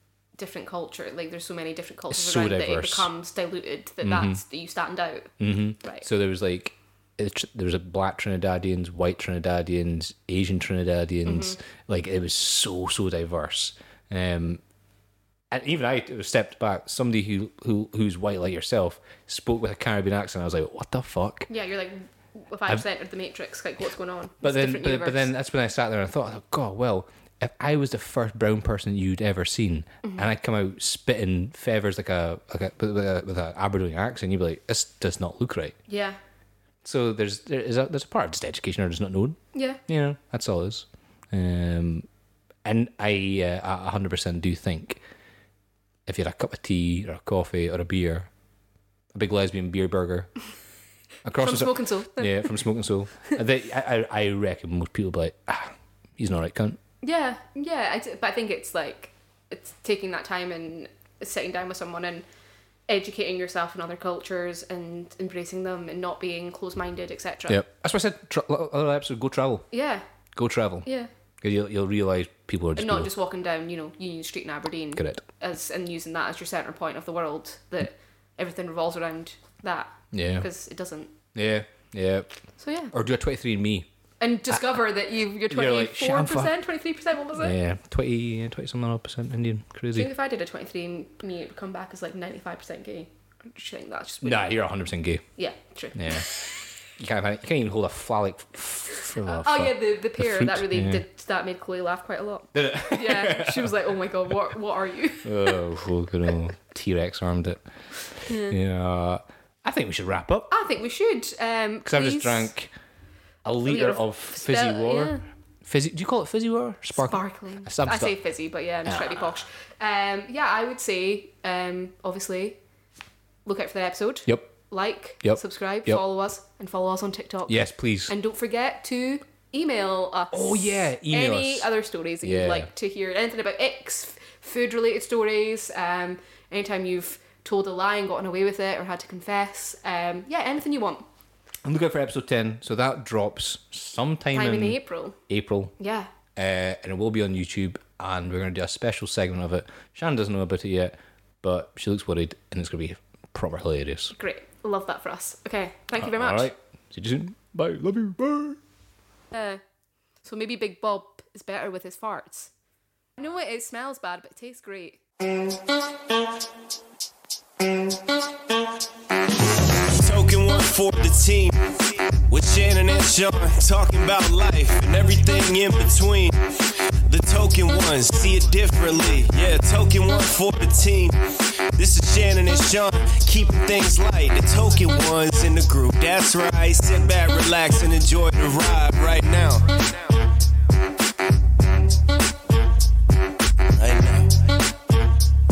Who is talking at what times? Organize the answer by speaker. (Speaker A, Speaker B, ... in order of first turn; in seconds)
Speaker A: 0.4-6.1, 11.3-11.6, 21.5-25.3, 35.9-36.2, 39.5-39.8, 51.4-52.7, 57.0-62.2, 62.9-67.6, 69.7-70.0, 72.8-81.2, 82.6-82.9, 84.2-87.6, 89.9-94.5, 95.4-96.4, 99.2-105.6, 108.2-108.6, 110.5-112.5, 113.7-115.2, 117.0-122.6, 123.5-141.1, 144.3-145.2, 145.8-146.1, 154.2-156.5, 159.3-159.6, 160.2-162.5, 163.2-165.0
Speaker B: 2.1-3.1, 4.0-4.4, 5.4-14.6, 15.5-21.5, 24.4-35.8, 36.8-42.1, 42.6-45.0, 46.1-48.3, 49.1-50.3, 51.2-56.8, 67.5-69.7, 70.3-70.9, 71.4-73.1, 75.0-75.2, 80.1-80.5, 81.3-82.4, 82.9-83.9, 85.5-86.6, 87.3-90.1, 94.2-95.2, 96.0-96.3, 96.9-101.0, 102.5-104.3, 105.2-107.6, 108.2-110.5, 111.8-112.7, 113.5-118.2, 118.8-119.2, 124.3-124.5, 125.2-126.0, 127.5-128.1, 130.3-131.7, 132.2-132.7, 141.6-145.8, 146.4-154.2, 156.0-158.6
Speaker C: 169.9-190.1, 193.7-194.5